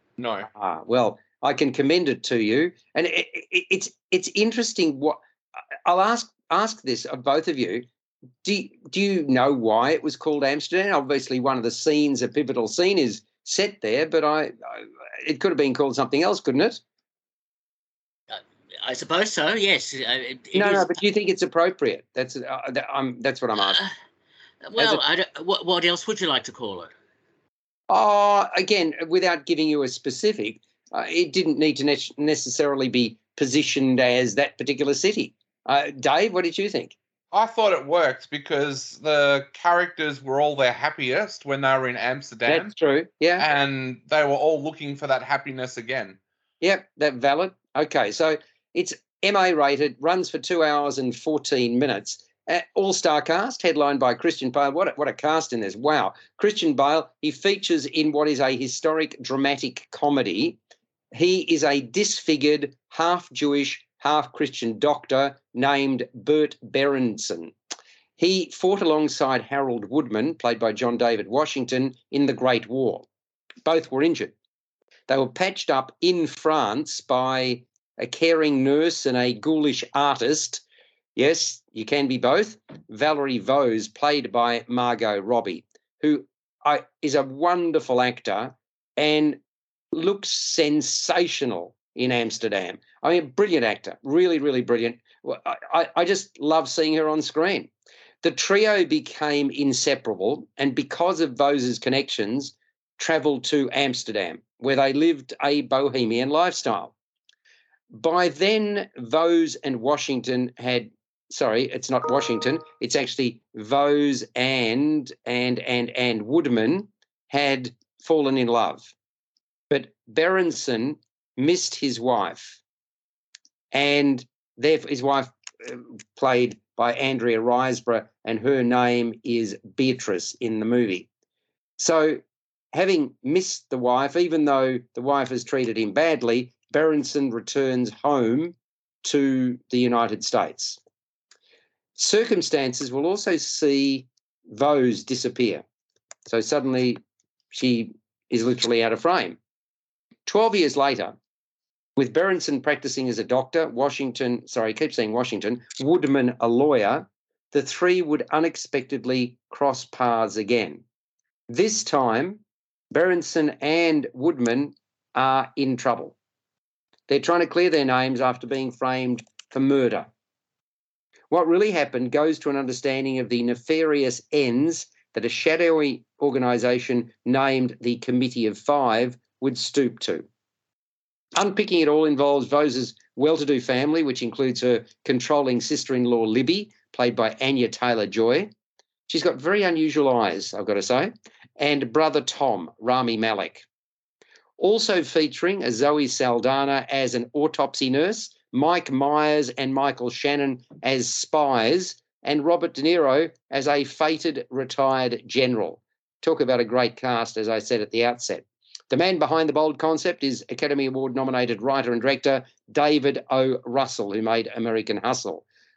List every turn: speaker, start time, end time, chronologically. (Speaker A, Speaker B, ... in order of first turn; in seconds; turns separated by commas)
Speaker A: 0.2-0.5, Speaker B: 0.5-5.2, Speaker B: 5.8-7.9, Speaker B: 8.4-16.8, Speaker C: 18.3-21.0, Speaker B: 20.5-23.8, Speaker C: 23.6-23.9, Speaker C: 24.7-26.9, Speaker B: 24.8-25.0, Speaker B: 27.9-37.0, Speaker A: 37.3-42.7, Speaker B: 42.5-43.5, Speaker A: 43.4-46.2, Speaker B: 46.6-60.6, Speaker B: 61.1-67.5, Speaker B: 68.2-73.1, Speaker B: 73.7-74.3, Speaker B: 75.1-80.6, Speaker B: 81.2-89.4, Speaker B: 89.9-97.7, Speaker B: 98.2-106.9, Speaker B: 107.9-118.9, Speaker B: 119.7-122.6, Speaker B: 123.7-131.1, Speaker B: 131.8-132.2, Speaker B: 132.7-140.8, Speaker B: 142.0-145.7, Speaker B: 146.3-147.0, Speaker B: 147.5-149.4, Speaker B: 150.3-151.2, Speaker B: 152.0-160.8, Speaker B: 161.5-162.4, Speaker B: 162.9-166.2, Speaker B: 167.1-170.1, Speaker B: 171.3-180.3, Speaker B: 181.4-188.5, Speaker B: 189.1-193.7, Speaker B: 194.6-215.4